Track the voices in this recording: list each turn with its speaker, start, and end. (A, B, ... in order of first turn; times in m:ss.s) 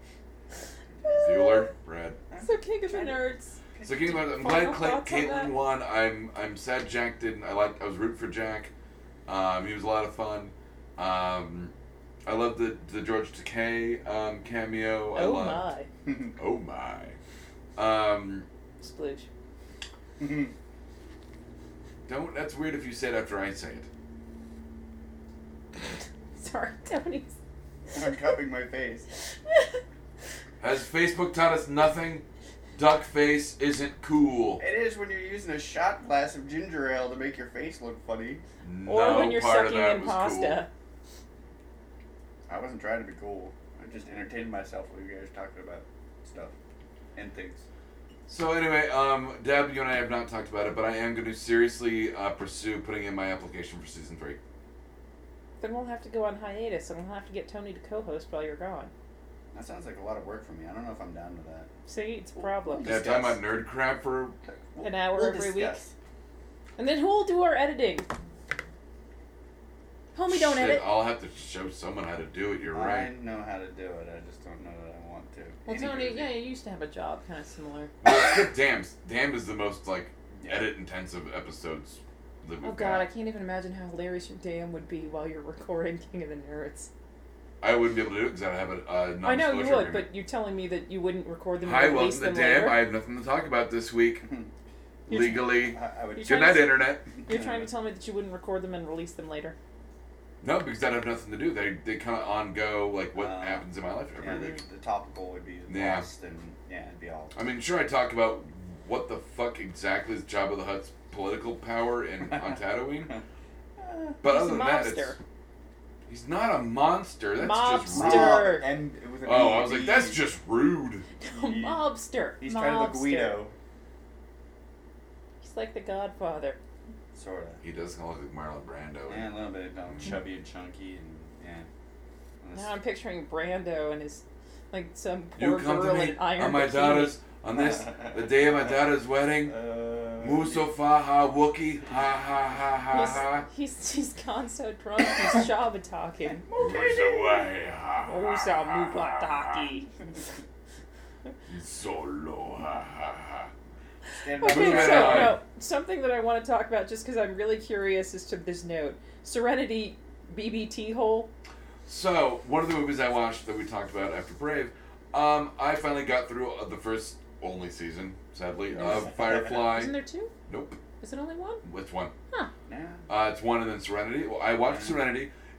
0:01.0-0:01.3 A
0:01.0-0:01.7 B
0:01.2-0:02.2 C
0:02.3-0:04.2 A
0:02.4-0:05.5 B
0:03.8-0:08.7 C
0:09.2-0:11.7 C
0:12.2-0:15.6 C
0:15.1-0:15.9 B
0:16.4-0:17.2 C
0:17.8-0:18.4 C
0:18.8-0:19.3 B
0:20.2-0:20.5 A
0:22.1-0:23.9 C
0:26.3-0:27.4 B
0:27.9-0:29.0 A
0:29.4-0:29.8 B
0:30.6-0:32.2 C
0:32.8-0:34.6 C
0:34.6-0:38.4 A
0:38.6-0:40.6 C
0:38.8-0:40.7 B
0:42.5-0:46.5 A
0:47.1-0:47.6 A
0:48.3-0:54.4 C
0:55.6-0:58.9 B
0:59.5-1:01.7 A
1:01.9-1:03.0 B
1:02.4-1:03.4 A
1:02.8-1:04.4 C
1:04.7-1:05.9 A
1:04.8-1:05.8 B
1:06.8-1:08.1 B
1:10.1-1:10.9 B
1:10.3-1:13.1 C
1:12.7-1:16.4 A
1:15.6-1:17.9 B
1:18.0-1:23.0 C
1:20.4-1:20.7 A
1:22.6-1:26.9 B
1:27.6-1:30.1 C
1:29.2-1:32.8 B
1:31.6-1:34.2 C
1:34.2-1:34.5 A
1:35.1-1:36.6 A
1:35.1-1:35.5 B
1:35.1-1:37.0 C
1:36.2-1:39.6 B
1:37.2-1:37.7 A
1:40.4-1:44.6 C
1:43.1-1:43.6 A
1:44.2-1:47.3 A
1:45.7-1:46.0 C
1:47.3-1:53.1 C
1:53.8-1:54.2 A
1:54.2-1:55.2 C
1:54.2-1:55.2 B
1:56.1-1:58.5 C
1:57.4-1:58.6 B
1:57.9-2:00.2 A
1:59.2-2:01.0 C
2:01.2-2:03.4 B
2:01.3-2:01.8 A
2:02.4-2:03.5 A
2:05.4-2:06.6 B
2:07.1-2:07.6 A
2:07.6-2:09.3 C
2:09.1-2:11.7 A
2:12.4-2:12.7 A
2:12.5-2:17.2 B
2:15.4-2:19.6 C
2:17.5-2:18.6 A
2:19.4-2:20.7 A
2:20.2-2:23.4 C
2:22.9-2:26.5 B
2:26.3-2:27.4 A
2:26.6-2:29.7 C
2:28.0-2:29.9 B
2:31.5-2:33.5 C
2:34.1-2:35.4 A
2:34.4-2:41.3 B
2:34.4-2:35.4 C
2:41.9-2:49.9 C
2:48.7-2:49.5 A
2:49.5-2:50.3 B
2:50.5-2:50.8 C
2:51.0-2:51.6 B
2:51.6-2:52.1 C
2:52.7-2:53.0 A
2:53.1-2:55.3 C